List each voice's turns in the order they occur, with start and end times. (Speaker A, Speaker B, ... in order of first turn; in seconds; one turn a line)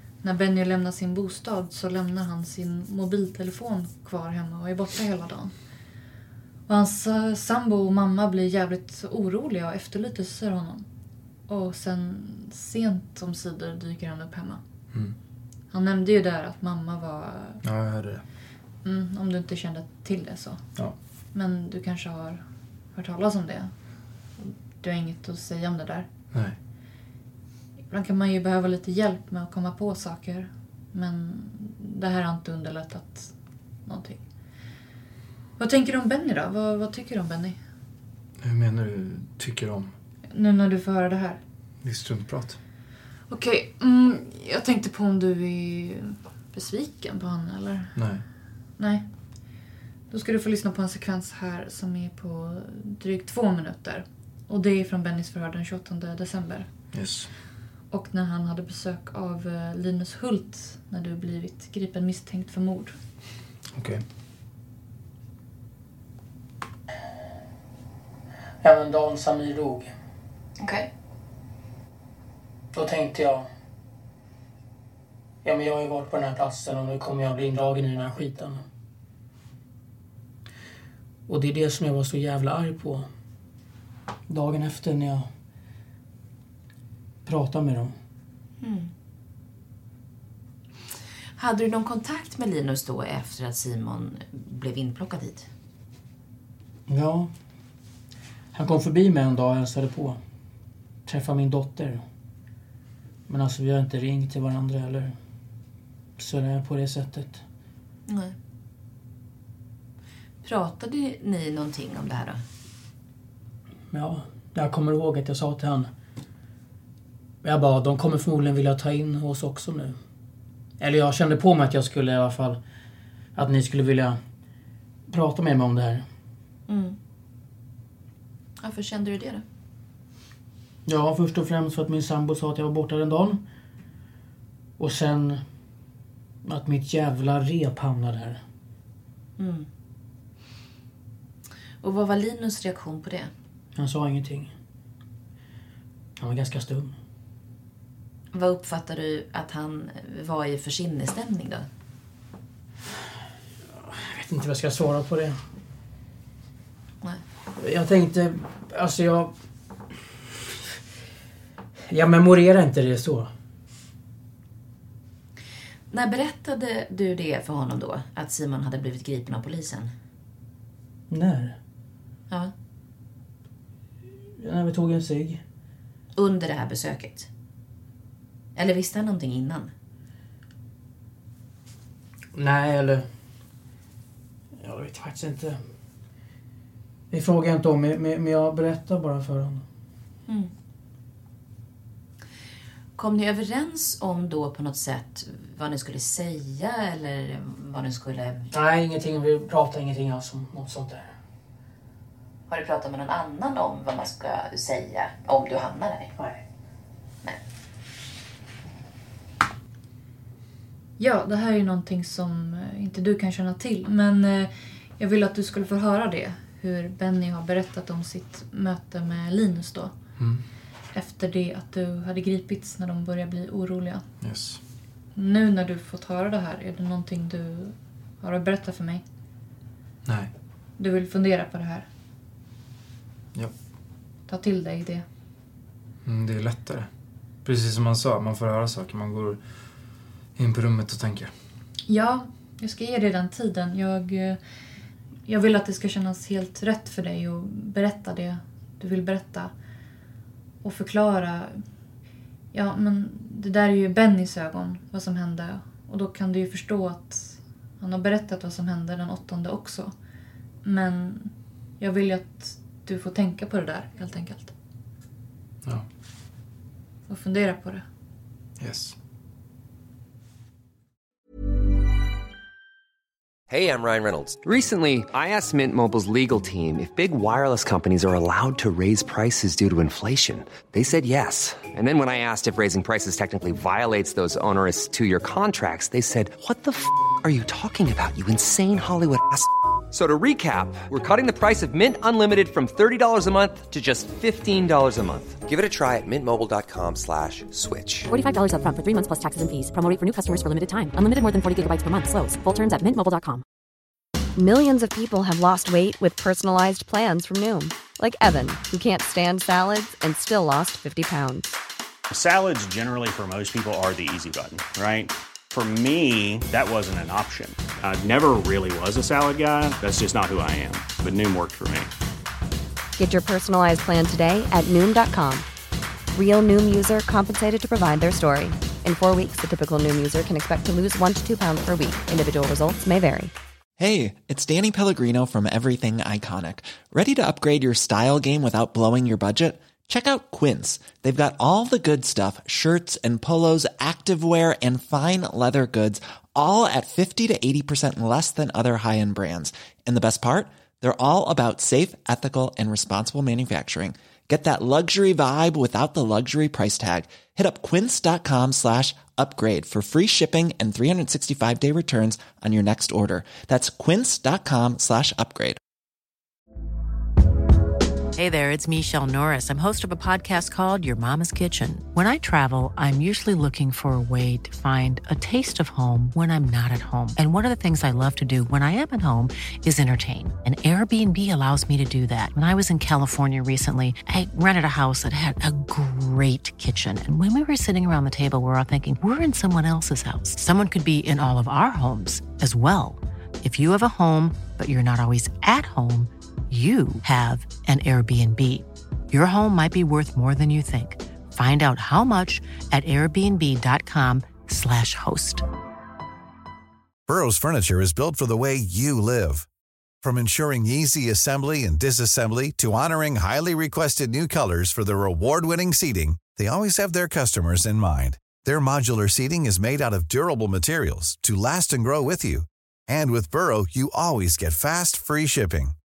Speaker A: 0.2-5.5
Speaker A: 6.7-10.8
Speaker A: 11.5-14.6
Speaker A: 15.7-17.6
Speaker B: 17.6-18.2
Speaker A: 18.8-20.7
Speaker A: 21.3-23.7
Speaker A: 24.4-26.1
Speaker A: 27.9-33.3
Speaker A: 33.8-34.2
Speaker A: 35.6-37.6
Speaker B: 38.4-39.9
Speaker A: 40.3-41.4
Speaker B: 41.8-42.6
Speaker A: 43.3-48.0
Speaker B: 47.9-48.2
Speaker A: 48.8-49.1
Speaker A: 50.1-56.7
Speaker B: 56.9-57.3
Speaker A: 57.9-62.9
Speaker B: 63.7-64.0
Speaker C: 68.6-69.9
Speaker D: 70.6-70.9
Speaker C: 72.7-73.5
Speaker C: 75.4-78.6
Speaker C: 81.3-83.1
Speaker C: 84.3-85.3
Speaker C: 87.2-87.9
Speaker D: 88.6-88.9
Speaker D: 91.4-95.5
Speaker C: 96.9-97.3
Speaker C: 98.5-100.2
Speaker C: 101.0-102.0
Speaker C: 103.3-105.1
Speaker C: 106.2-107.4
Speaker D: 108.1-108.3
Speaker D: 110.4-112.4
Speaker C: 113.9-115.9
Speaker C: 117.4-120.0
Speaker C: 120.8-122.6
Speaker C: 123.3-124.2
Speaker C: 125.1-126.0
Speaker D: 126.7-127.0
Speaker D: 128.6-129.4
Speaker C: 130.8-133.4
Speaker C: 134.8-135.4
Speaker C: 136.4-138.4
Speaker D: 139.4-139.7
Speaker D: 141.8-143.3
Speaker C: 143.7-144.5
Speaker C: 146.2-146.9
Speaker D: 148.3-151.7
Speaker C: 153.7-155.4
Speaker C: 157.6-159.3
Speaker C: 161.9-163.3
Speaker D: 165.9-169.9
Speaker C: 171.1-171.6
Speaker C: 174.4-175.4
Speaker D: 176.1-177.3
Speaker D: 178.5-179.7
Speaker C: 182.3-183.1
Speaker C: 184.5-185.6
Speaker C: 187.1-189.6
Speaker D: 192.9-198.5
Speaker C: 198.5-201.1
Speaker D: 202.5-206.1
Speaker A: 211.0-219.9
Speaker B: 220.2-220.4
Speaker A: 220.9-224.1
Speaker B: 224.2-224.6
Speaker A: 225.1-229.0
Speaker B: 230.0-230.3
Speaker A: 230.8-231.9
Speaker A: 234.3-235.0
Speaker B: 236.0-236.9
Speaker B: 237.4-239.4
Speaker B: 240.3-241.3
Speaker A: 241.8-244.4
Speaker A: 245.3-249.5
Speaker A: 250.6-251.6
Speaker A: 252.5-259.9
Speaker A: 260.6-264.5
Speaker A: 267.1-267.8
Speaker B: 268.6-268.9
Speaker E: 273.5-298.1
Speaker F: 298.1-303.4
Speaker G: 304.4-311.5
Speaker H: 312.1-321.9
Speaker G: 323.0-325.4
Speaker G: 326.1-333.3
Speaker I: 333.8-365.6
Speaker J: 368.1-405.4
Speaker K: 407.1-409.5
Speaker K: 410.0-425.7